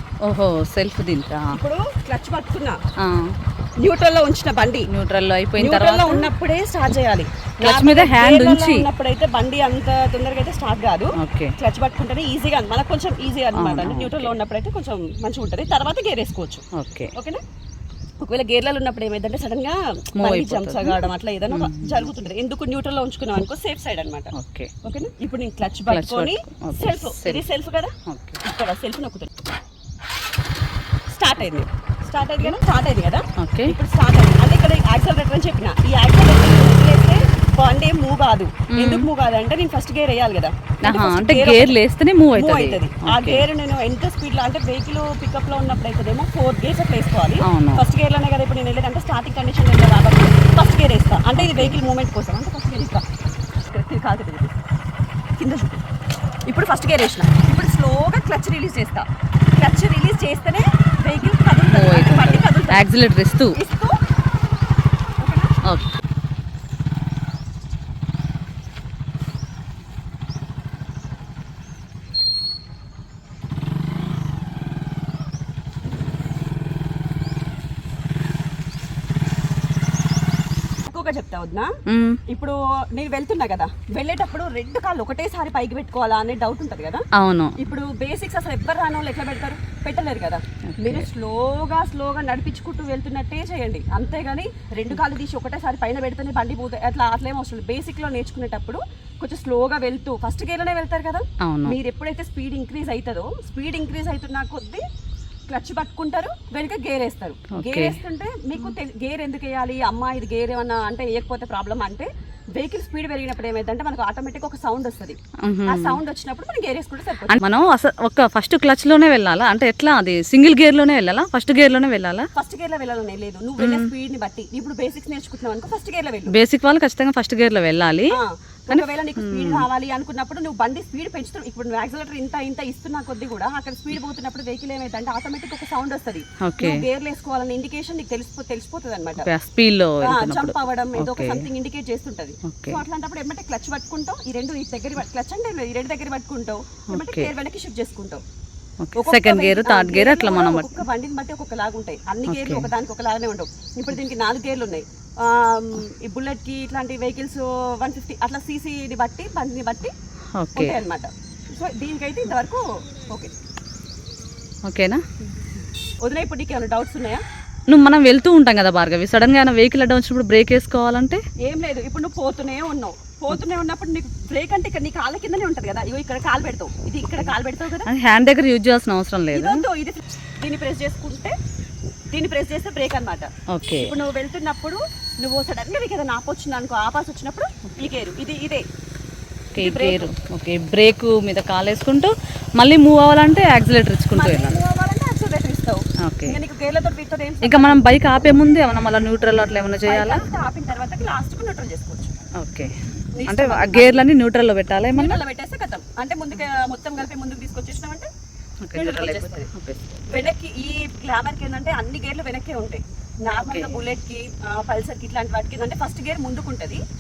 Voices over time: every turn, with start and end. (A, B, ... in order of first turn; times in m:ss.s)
0:00.2-0:01.6 A
0:01.5-0:02.8 B
0:03.0-0:03.3 A
0:03.8-0:04.9 B
0:04.9-0:06.3 A
0:05.6-0:16.6 B
0:07.6-0:08.8 A
0:11.2-0:11.5 A
0:13.5-0:14.3 A
0:16.7-0:17.1 A
0:17.1-0:17.4 B
0:18.2-0:24.3 B
0:20.2-0:21.0 A
0:21.5-0:22.0 A
0:24.3-0:24.7 A
0:24.8-0:29.3 B
0:25.9-0:27.4 A
0:28.0-0:28.4 A
0:31.1-0:41.8 B
0:33.4-0:33.7 A
0:38.7-0:39.1 A
0:40.8-0:43.4 A
0:42.3-0:53.0 B
0:47.4-0:47.8 A
0:51.4-0:51.8 A
0:53.7-0:54.6 B
0:55.4-0:55.8 B
0:56.5-0:59.1 B
0:59.6-1:02.8 B
1:01.7-1:03.6 A
1:03.5-1:04.0 B
1:05.2-1:05.5 B
1:05.6-1:05.9 A
1:20.9-1:21.7 B
1:21.9-1:22.2 A
1:22.3-1:27.0 B
1:27.2-1:27.6 A
1:27.6-1:44.8 B
1:30.7-1:31.1 A
1:41.4-1:41.7 A
1:45.5-1:57.4 B
1:47.5-1:48.0 A
1:55.4-1:56.0 A
1:57.3-2:02.2 A
2:02.4-2:06.3 B
2:03.6-2:03.9 A
2:06.3-2:08.1 A
2:08.1-2:19.3 B
2:08.7-2:09.6 A
2:16.4-2:16.8 A
2:19.2-2:21.4 A
2:20.0-2:28.2 B
2:22.4-2:22.8 A
2:26.9-2:27.3 A
2:28.8-2:30.8 A
2:29.0-2:39.9 B
2:32.3-2:32.7 A
2:40.4-2:40.8 A
2:40.5-2:43.3 B
2:44.6-2:45.0 A
2:46.0-2:47.2 B
2:47.7-2:51.2 A
2:51.4-2:57.9 B
2:57.8-2:59.6 A
2:59.3-3:01.3 B
3:02.1-3:08.6 B
3:03.5-3:03.9 A
3:09.5-3:14.6 A
3:09.6-3:10.1 B
3:14.1-3:17.8 B
3:16.0-3:16.4 A
3:17.4-3:20.2 A
3:19.9-3:22.2 B
3:22.4-3:22.7 A
3:23.2-3:24.0 B
3:23.3-3:25.2 A
3:24.9-3:28.1 B
3:28.6-3:30.1 A
3:28.7-3:29.5 B
3:30.1-3:36.8 B
3:33.4-3:33.7 A